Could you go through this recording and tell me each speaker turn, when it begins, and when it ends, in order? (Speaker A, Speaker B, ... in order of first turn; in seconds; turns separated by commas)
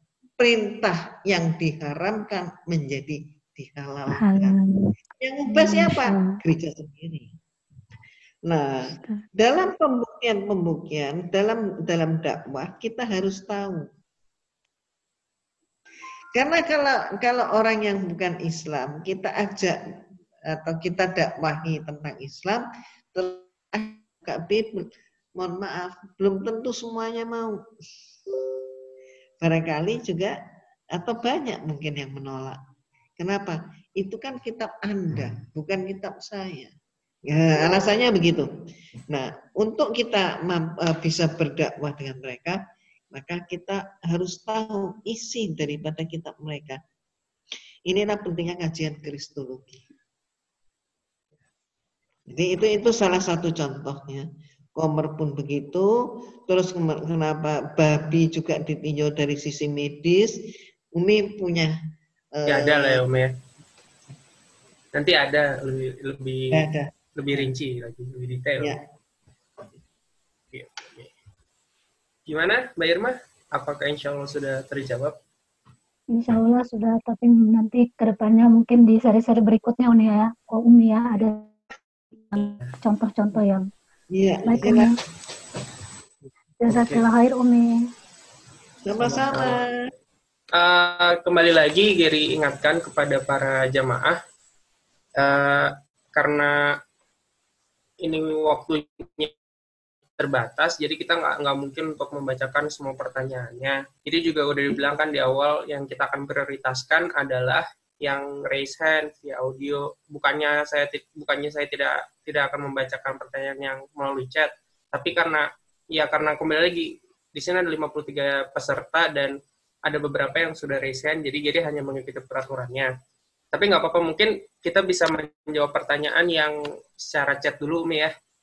Speaker A: 0.4-4.6, Speaker B: 4.1-4.9, Speaker A: 5.2-7.3, Speaker B: 5.5-6.4, Speaker A: 8.5-13.9, Speaker B: 9.0-9.2, Speaker A: 16.3-19.8, Speaker A: 20.5-27.6, Speaker A: 29.4-30.3, Speaker A: 30.9-32.6, Speaker A: 33.2-36.7, Speaker A: 37.3-38.5, Speaker A: 39.1-42.6, Speaker A: 43.1-46.8, Speaker A: 47.9-49.8, Speaker A: 52.3-55.9, Speaker A: 56.5-60.4, Speaker A: 61.0-61.7, Speaker A: 62.4-63.0, Speaker C: 62.5-63.3, Speaker C: 64.9-66.6, Speaker A: 66.5-67.5, Speaker C: 67.2-68.7, Speaker C: 70.5-71.1, Speaker C: 72.3-75.1, Speaker B: 76.1-81.5, Speaker B: 82.3-83.7, Speaker A: 84.1-84.9, Speaker B: 84.5-84.9, Speaker B: 86.6-87.7, Speaker C: 86.7-87.0, Speaker A: 88.8-89.7, Speaker C: 89.0-89.5, Speaker C: 90.5-94.2, Speaker C: 95.2-96.5, Speaker C: 98.0-99.3, Speaker C: 100.2-119.3, Speaker C: 119.8-122.9, Speaker C: 123.5-128.1